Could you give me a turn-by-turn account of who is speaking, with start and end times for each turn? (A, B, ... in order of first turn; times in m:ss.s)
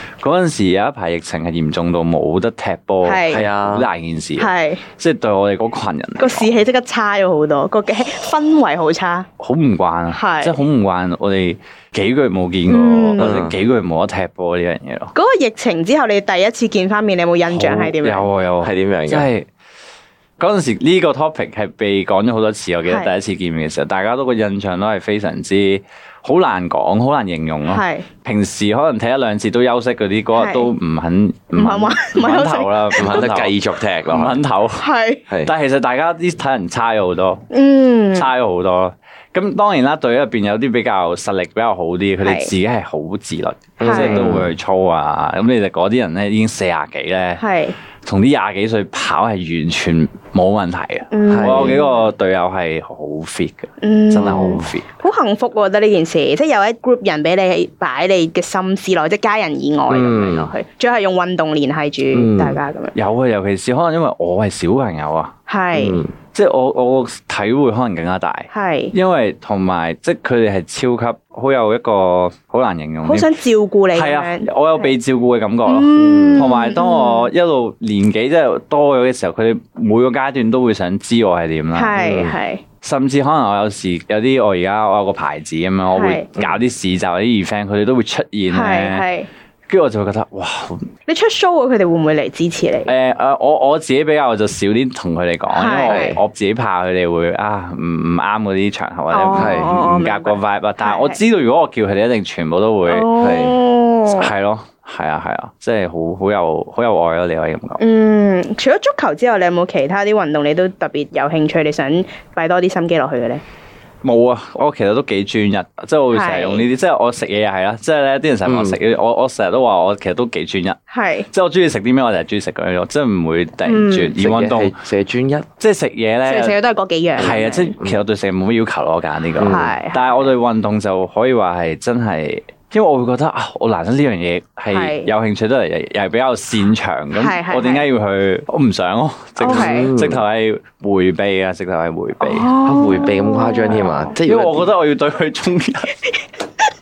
0:00.2-0:06.6 A
0:03.0-0:03.4 B
0:03.3-0:03.9 C
0:04.4-0:04.8 B
0:06.2-0:09.3 B
0:09.4-0:15.1 A
0:10.1-0:10.6 B
0:12.7-0:13.3 B
0:13.2-0:13.5 C
0:15.1-0:18.3 B
0:17.5-0:19.5 A
0:18.6-0:19.3 C
0:20.4-0:33.6 A
0:22.8-0:23.1 B
0:27.7-0:28.0 B
0:30.4-0:30.7 B
0:31.5-0:33.3 B
0:33.0-0:34.4 C
0:34.1-0:34.9 A
0:34.8-0:35.2 B
0:35.4-0:37.4 A
0:37.5-0:38.3 B
0:38.1-0:47.4 A
0:42.2-0:42.5 B
0:43.8-0:44.5 C
0:43.8-0:44.2 B
0:47.4-0:47.8 B
0:48.0-0:54.8 A
0:51.1-0:52.1 B
0:51.3-0:51.8 C
0:53.8-1:02.9 B
0:54.2-0:54.7 C
0:59.9-1:00.5 C
1:02.1-1:02.6 C
1:02.9-1:05.3 A
1:05.5-1:06.0 B
1:05.7-1:06.1 C
1:06.3-1:13.3 A
1:08.5-1:08.9 B
1:13.0-1:14.9 B
1:13.9-1:22.0 A
1:15.6-1:17.3 B
1:16.0-1:16.5 C
1:21.7-1:22.6 B
1:22.0-1:22.3 C
1:22.8-1:29.0 A
1:25.9-1:26.3 B
1:28.5-1:29.3 B
1:29.7-1:30.9 A
1:31.1-1:32.9 B
1:32.9-1:43.1 A
1:35.5-1:36.2 B
1:35.9-1:36.2 C
1:39.1-1:41.2 B
1:39.3-1:39.7 C
1:42.9-1:44.3 B
1:43.2-1:43.6 C
1:44.1-1:47.8 A
1:47.8-1:53.4 B
1:54.0-2:04.8 A
1:56.1-1:56.6 B
1:58.4-1:58.8 C
2:00.9-2:01.3 B
2:03.6-2:04.2 B
2:04.2-2:05.5 C
2:05.6-2:06.6 A
2:06.2-2:07.7 B
2:07.2-2:22.5 A
2:09.4-2:09.7 C
2:09.4-2:10.3 B
2:14.7-2:15.1 B
2:17.1-2:17.8 B
2:19.4-2:19.9 B
2:19.4-2:20.2 C
2:22.2-2:24.1 B
2:22.6-2:24.7 C
2:24.2-2:26.1 A